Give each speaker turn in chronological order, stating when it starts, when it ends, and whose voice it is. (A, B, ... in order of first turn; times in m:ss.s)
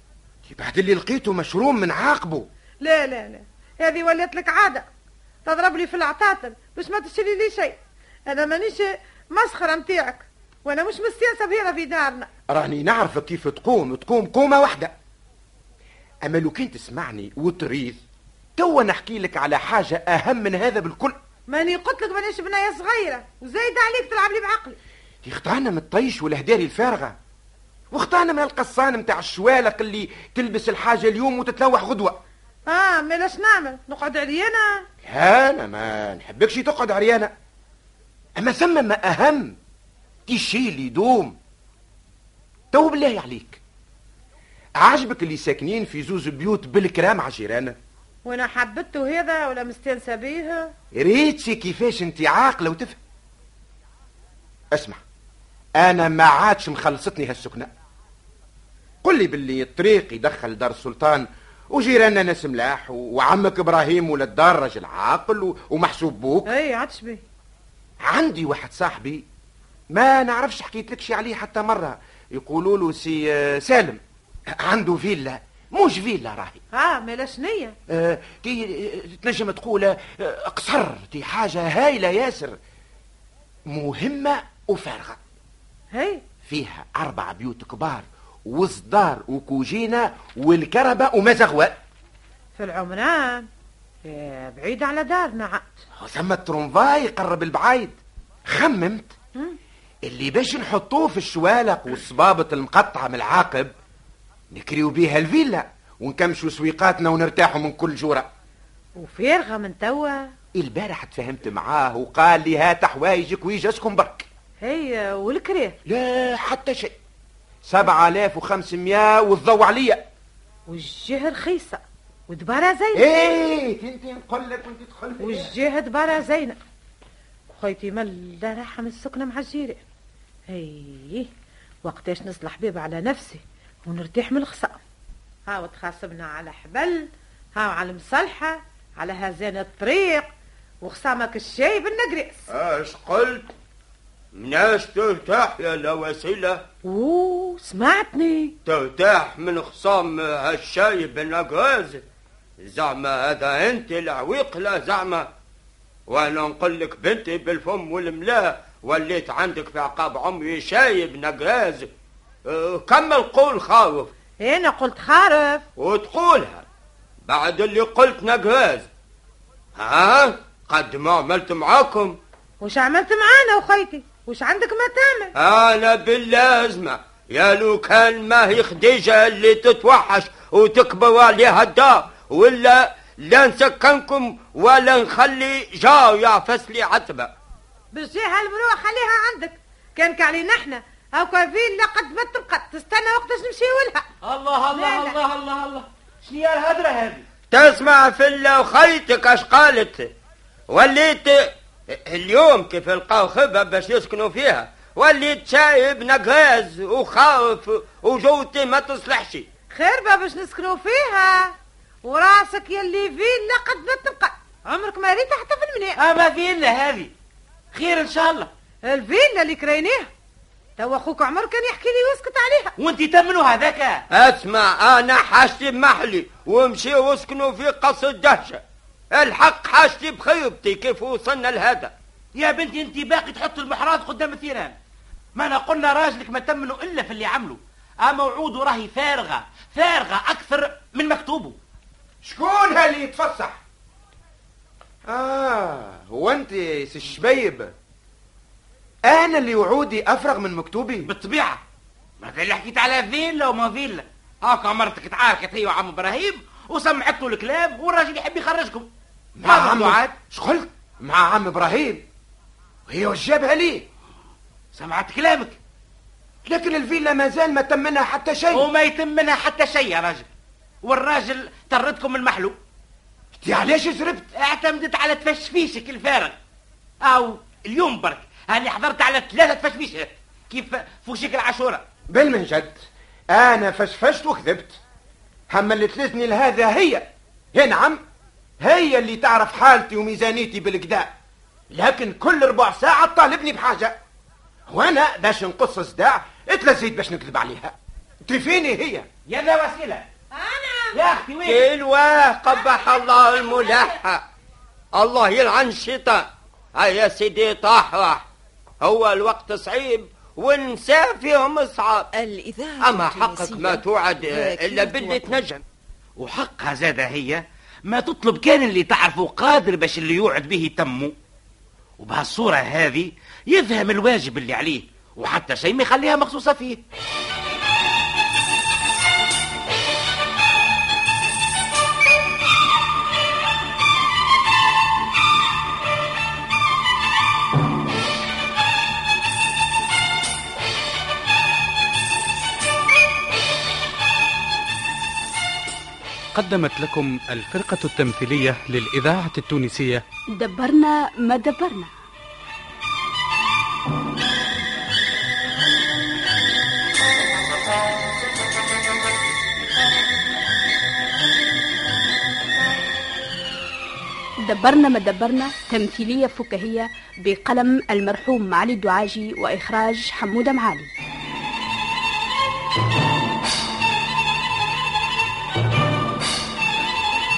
0:00.5-0:02.5 A
0:02.8-0:04.8 B
0:05.4-0:12.3 B
0:12.5-0:14.9 A
0:16.2-0:18.0 A
0:18.6-0:21.2 A
0:21.5-0:24.8 B
0:25.2-0:27.2 A
0:27.9-0:32.2 A
0:32.7-0:34.9 B
0:35.0-0:37.3 A
0:38.4-0:39.6 A
0:40.3-0:41.4 A
0:42.7-0:43.6 A
0:44.8-0:47.8 A
0:48.2-0:50.7 B
0:50.9-0:53.0 A
0:54.7-0:55.0 A
0:55.8-0:57.7 A
0:59.0-1:06.5 A
1:06.5-1:07.2 B
1:08.0-1:09.2 A
1:09.9-1:14.0 A
1:14.6-1:16.6 A
1:16.7-1:17.8 B
1:17.9-1:22.6 A
1:23.7-1:25.2 A
1:25.9-1:26.2 B
1:26.4-1:31.8 A
1:32.6-1:33.5 B
1:34.0-1:35.8 B
1:36.0-1:37.9 A
1:38.5-1:39.1 A
1:40.0-1:43.7 A
1:44.5-1:48.3 A
1:49.0-1:50.3 B
1:50.5-1:54.3 A
1:54.6-1:55.8 B
1:55.8-1:56.9 A
1:57.6-2:00.0 A
2:00.7-2:03.1 B
2:02.9-2:05.5 A
2:05.2-2:06.6 B
2:07.6-2:09.8 B
2:10.5-2:11.3 B
2:11.8-2:14.8 B
2:15.5-2:20.3 B
2:20.8-2:22.5 B
2:22.5-2:23.5 C
2:24.3-2:26.6 C
2:26.8-2:28.6 B
2:28.6-2:32.0 C
2:32.6-2:35.3 C
2:36.1-2:41.9 C
2:42.4-2:44.1 C
2:44.4-2:45.6 B
2:45.8-2:46.6 C
2:47.2-2:48.9 C
2:49.8-2:52.2 C
2:52.6-2:55.3 B
2:55.4-3:07.3 C
3:07.9-3:14.0 B
3:14.2-3:17.2 D
3:14.7-3:15.2 B
3:17.5-3:20.1 C
3:20.7-3:29.5 C
3:29.7-3:36.0 B
3:36.0-3:37.1 D
3:37.7-3:38.5 D
3:38.8-3:40.1 B
3:40.8-3:42.7 B
3:42.8-3:44.0 D
3:44.1-3:51.9 C
3:52.3-3:54.8 D
3:55.3-4:01.6 D
4:02.2-4:03.6 A
4:05.1-4:07.7 A
4:09.0-4:11.1 A
4:11.0-4:11.6 D
4:12.2-4:18.9 D
4:19.4-4:22.0 A
4:19.4-4:20.1 D
4:22.9-4:23.9 A
4:24.7-4:25.6 D
4:26.4-4:28.7 A
4:28.5-4:30.3 D
4:30.8-4:32.6 D
4:33.3-4:34.3 A
4:34.3-4:36.4 D
4:37.0-4:41.8 D
4:42.1-4:44.8 A
4:45.5-4:48.0 A
4:48.6-4:51.1 A
4:51.7-4:54.0 A
4:54.7-4:59.1 A
4:59.3-5:00.0 D
5:00.3-5:01.0 B
5:00.9-5:01.7 D
5:01.4-5:04.2 C
5:04.9-5:08.2 C
5:08.8-5:12.1 C
5:12.3-5:13.8 E
5:12.8-5:15.6 C
5:14.4-5:15.1 E
5:16.2-5:21.1 D
5:22.0-5:26.8 D
5:46.3-5:50.0 F
5:50.4-5:51.9 G
6:04.4-6:10.9 G